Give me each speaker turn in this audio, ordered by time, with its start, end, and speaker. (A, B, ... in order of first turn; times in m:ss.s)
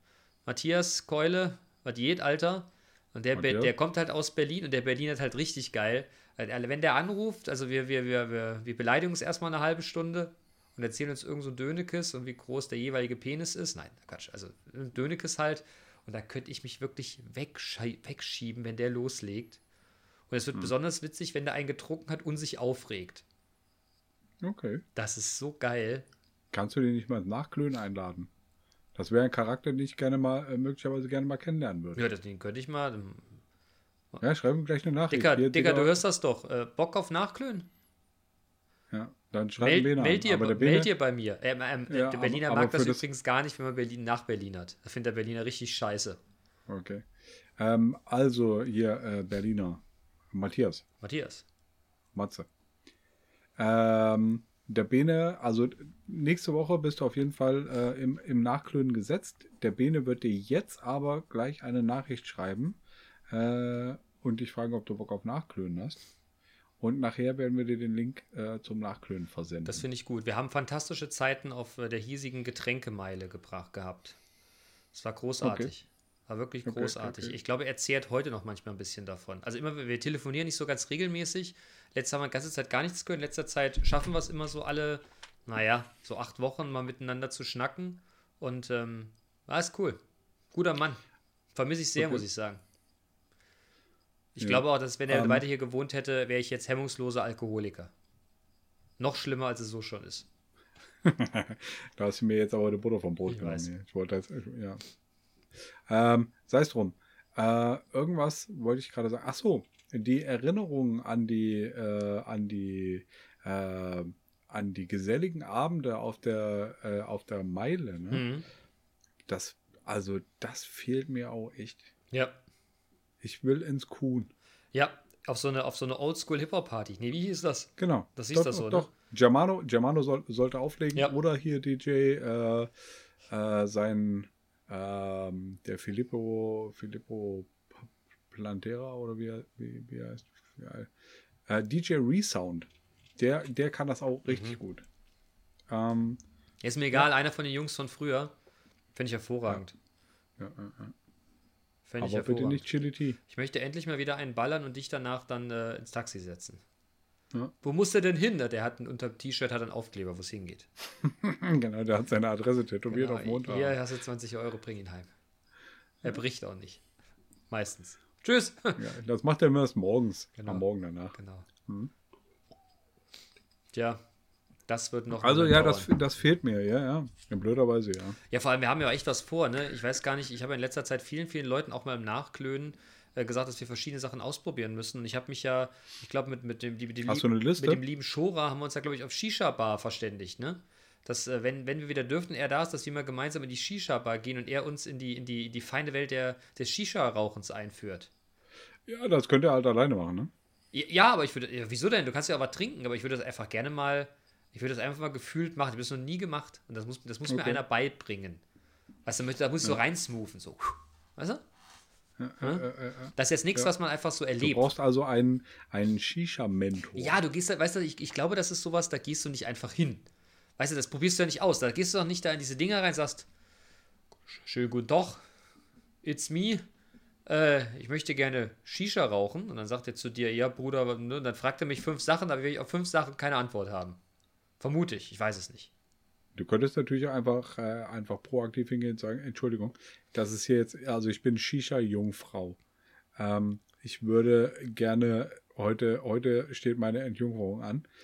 0:00.4-0:19.6 A
0:03.3-0:03.7 B
0:20.3-0:23.2 A
0:24.4-0:24.8 B
0:24.9-0:26.0 A
0:26.5-0:28.3 B
0:28.9-0:32.1 B
0:32.0-0:33.4 A
0:34.2-0:36.0 B
0:35.1-0:37.7 A
0:38.9-0:40.9 B
0:39.6-0:46.2 A
0:41.9-0:43.0 B
0:46.7-0:50.8 B
0:51.0-0:51.4 A
0:52.1-0:52.5 B
0:53.6-1:06.0 B
1:06.8-1:09.8 B
1:09.6-1:14.2 A
1:14.9-1:30.0 A
1:15.4-1:15.7 B
1:16.6-1:17.4 B
1:30.5-1:31.0 A
1:31.5-1:32.6 A
1:32.0-1:32.2 B
1:34.4-1:37.9 A
1:34.4-1:35.4 B
1:39.0-1:40.3 A
1:41.0-1:44.8 B
1:43.3-1:43.7 A
1:45.9-1:58.2 B
1:58.1-1:58.4 A
1:59.3-2:01.9 B
2:02.1-2:02.4 A
2:03.2-2:04.3 B
2:04.7-2:08.9 A
2:07.8-2:12.7 B
2:13.3-2:20.9 B
2:21.4-2:24.8 B
2:24.3-2:24.6 A
2:25.7-2:26.2 B
2:26.6-2:28.3 A
2:28.9-2:29.7 A
2:30.4-2:30.9 B
2:31.8-2:32.7 A
2:32.0-2:33.2 B
2:33.3-2:36.6 A
2:37.6-2:40.7 A
2:41.0-2:43.8 B
2:42.9-2:45.1 A
2:46.0-2:46.8 A
2:47.5-2:48.8 A
2:48.8-2:51.9 B
2:50.4-2:51.5 A
2:53.7-2:54.0 A
2:54.7-2:55.9 A
2:55.1-2:58.2 B
2:58.3-3:18.1 A
3:07.0-3:07.8 B
3:18.9-3:20.3 B
3:20.7-3:28.4 A
3:27.3-3:27.6 B
3:29.0-3:31.4 A
3:32.2-3:33.7 B
3:32.4-3:34.7 A
3:34.4-3:37.2 B
3:37.0-3:40.0 A
3:40.6-3:43.3 A
3:44.3-3:45.2 A
3:46.0-3:46.6 A
3:47.2-3:54.0 A
3:54.6-3:55.7 A
3:56.3-4:02.6 B
4:03.2-4:07.9 B